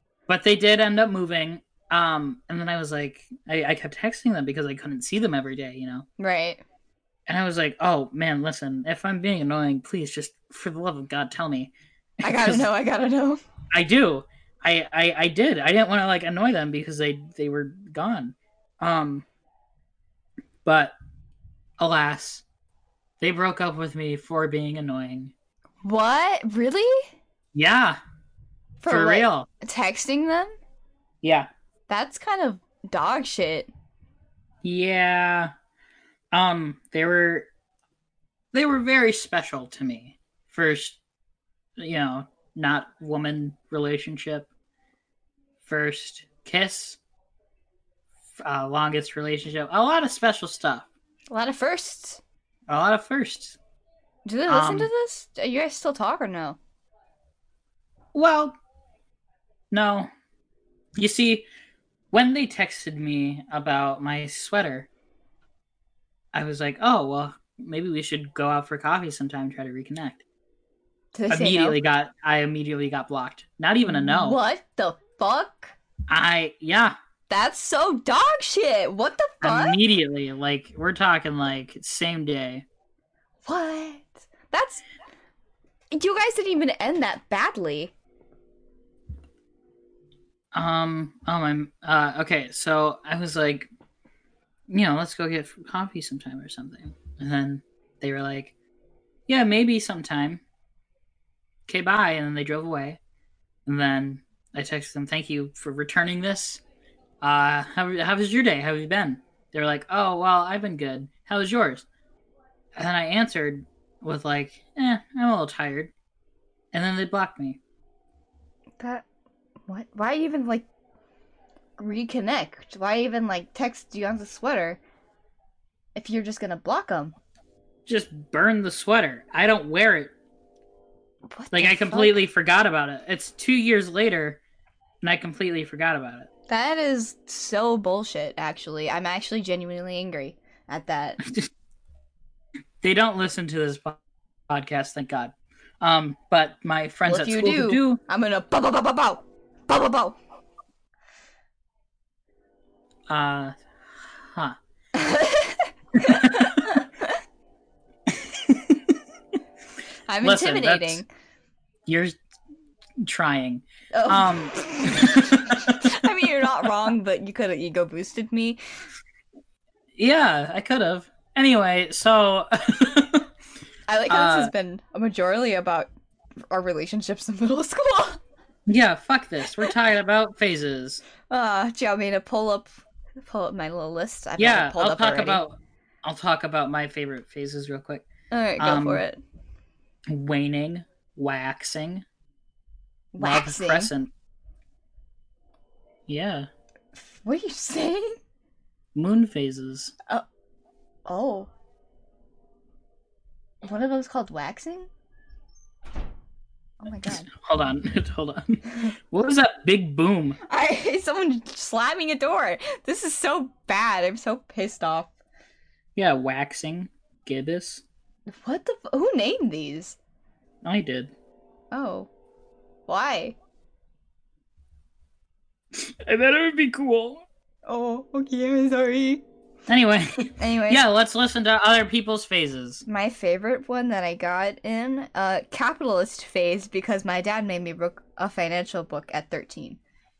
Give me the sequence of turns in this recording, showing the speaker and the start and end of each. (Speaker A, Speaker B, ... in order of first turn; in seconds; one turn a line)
Speaker A: 0.3-6.0
Speaker B: 6.2-6.6
Speaker A: 7.3-12.7
Speaker B: 12.2-13.4
Speaker A: 13.7-19.2
Speaker A: 20.6-20.9
Speaker A: 21.8-22.4
Speaker A: 23.2-25.3
Speaker B: 25.8-27.1
Speaker A: 27.5-28.0
Speaker B: 28.8-30.5
Speaker A: 28.9-29.5
Speaker A: 31.2-31.5
Speaker B: 31.9-33.7
Speaker A: 34.6-35.5
Speaker A: 36.3-37.5
Speaker A: 38.5-41.0
Speaker A: 41.8-44.5
Speaker A: 45.6-47.0
Speaker A: 48.4-50.9
Speaker B: 51.3-52.2
Speaker A: 52.7-53.6
Speaker B: 54.2-56.6
Speaker A: 54.5-54.9
Speaker A: 58.1-58.5
Speaker A: 59.7-60.1
Speaker A: 61.0-61.5
Speaker A: 62.1-64.9
Speaker A: 66.3-70.2
Speaker B: 71.1-71.8
Speaker A: 71.3-74.4
Speaker B: 73.8-75.8
Speaker A: 76.1-77.0
Speaker B: 77.3-79.8
Speaker A: 79.4-82.6
Speaker B: 83.4-84.8
Speaker B: 85.9-87.9
Speaker A: 90.5-93.7
Speaker A: 94.7-98.5
Speaker A: 99.3-100.4
Speaker A: 101.7-103.0
Speaker A: 103.7-106.6
Speaker A: 107.2-111.8
Speaker A: 112.7-115.9
Speaker A: 116.7-117.6
Speaker B: 118.8-119.0
Speaker B: 119.7-120.7
Speaker B: 121.8-124.8
Speaker B: 126.0-127.2
Speaker A: 127.8-130.1
Speaker B: 131.3-132.2
Speaker A: 131.5-134.4
Speaker A: 135.0-136.3
Speaker B: 136.5-141.2
Speaker A: 142.8-148.0
Speaker B: 147.1-150.2
Speaker A: 153.1-153.6
Speaker A: 154.2-154.6
Speaker B: 154.9-157.1
Speaker A: 156.0-156.6
Speaker A: 158.1-158.9
Speaker B: 160.1-161.1
Speaker A: 160.2-161.0
Speaker A: 161.8-162.2
Speaker A: 163.0-165.9
Speaker B: 163.9-168.6
Speaker A: 169.9-173.3
Speaker B: 173.9-175.9
Speaker A: 174.1-174.5
Speaker B: 176.5-178.2
Speaker A: 178.7-181.0
Speaker B: 181.3-185.4
Speaker A: 184.4-188.1
Speaker B: 188.3-189.2
Speaker A: 188.6-189.0
Speaker A: 190.1-192.0
Speaker B: 193.1-193.9
Speaker A: 193.2-194.1
Speaker A: 196.1-196.5
Speaker B: 196.9-198.2
Speaker A: 198.9-199.9
Speaker B: 201.1-201.5
Speaker B: 203.6-204.9
Speaker B: 206.8-207.3
Speaker A: 207.0-210.4
Speaker B: 210.5-215.1
Speaker A: 215.9-217.8
Speaker B: 218.3-220.0
Speaker A: 220.6-221.1
Speaker B: 221.7-222.1
Speaker B: 222.9-223.3
Speaker A: 225.7-227.2
Speaker B: 227.7-229.2
Speaker A: 229.7-232.8
Speaker B: 230.4-230.8
Speaker B: 232.8-239.8